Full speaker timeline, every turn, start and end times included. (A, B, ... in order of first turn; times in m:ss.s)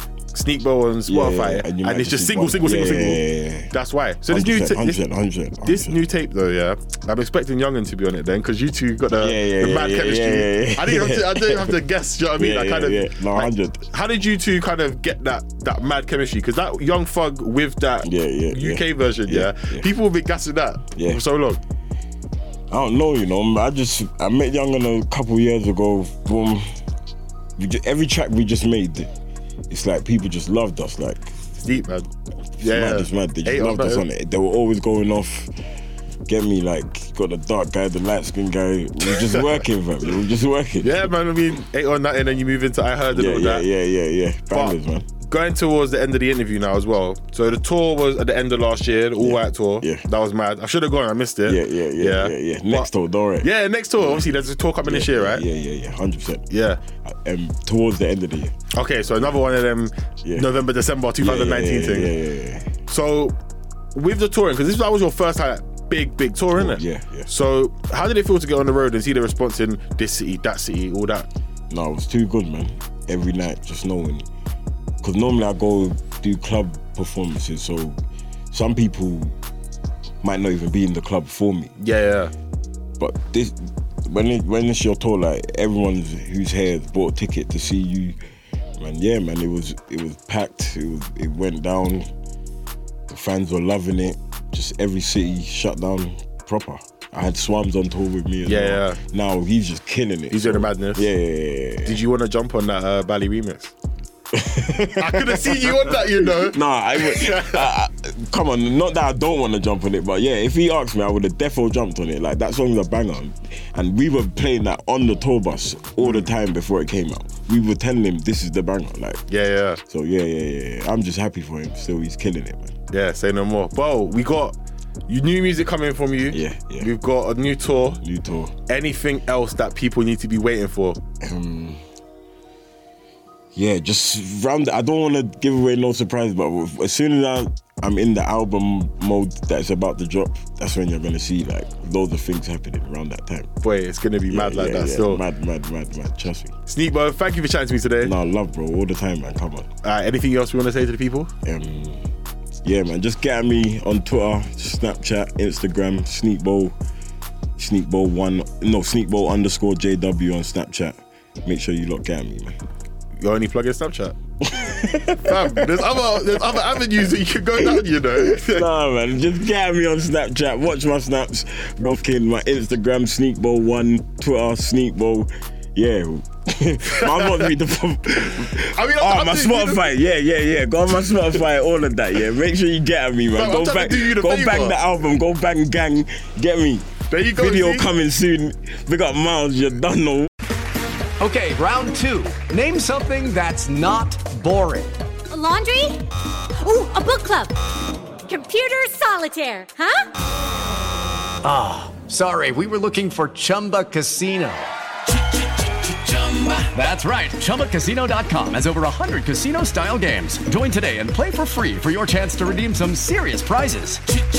0:00.3-0:05.0 A
0:01.1-0:03.7 B
0:04.3-0:06.0 B
0:05.6-0:21.6 A
0:09.2-0:11.8 B
0:12.4-0:13.9 B
0:18.0-0:19.9 B
0:21.0-0:21.2 B
0:22.7-0:26.6 B
0:27.6-0:29.1 B
0:29.7-0:31.4 B
0:31.6-0:34.0 A
0:32.6-0:35.5 B
0:36.3-0:41.1 B
0:40.8-0:43.7 A
0:43.1-0:45.0 B
0:44.5-0:55.4 A
0:49.2-0:50.0 B
0:51.4-0:54.3 B
0:54.8-0:56.5 B
0:56.5-0:56.8 A
0:57.0-0:58.5 B
0:58.7-1:02.1 A
1:00.2-1:00.5 B
1:01.2-1:02.7 B
1:02.9-1:03.4 A
1:03.9-1:11.3 A
1:06.5-1:07.3 B
1:11.7-1:14.3 B
1:15.0-1:18.0 B
1:18.5-1:19.3 B
1:20.2-1:21.7 B
1:21.8-1:22.3 A
1:23.0-1:28.2 B
1:28.8-1:32.1 B
1:33.1-1:42.0 B
1:38.4-1:39.0 A
1:40.3-1:41.1 A
1:41.8-1:43.7 A
1:44.3-1:59.2 B
1:45.0-1:47.7 A
1:56.0-1:56.3 A
1:59.3-1:59.8 A
1:59.9-2:02.8 B
2:02.9-2:04.6 A
2:05.1-2:08.0 A
2:06.3-2:06.9 B
2:07.9-2:08.5 B
2:08.7-2:11.0 A
2:11.2-2:11.8 B
2:13.5-2:23.5 B
2:23.6-2:25.2 A
2:24.3-2:26.5 B
2:26.6-2:28.1 A
2:28.0-2:29.7 B
2:29.8-2:31.3 A
2:31.4-2:32.1 B
2:32.6-2:36.8 B
2:37.6-2:42.6 B
2:43.2-2:44.1 A
2:44.4-2:46.1 B
2:45.2-2:48.6 A
2:48.5-3:10.3 B
2:56.9-2:57.5 A
2:58.5-2:59.9 A
3:03.3-3:04.8 A
3:07.1-3:07.9 A
3:11.2-3:14.9 C
3:15.3-3:16.0 D
3:16.6-3:17.5 D
3:18.2-3:20.1 D
3:21.4-3:24.7 C
3:26.1-3:34.0 C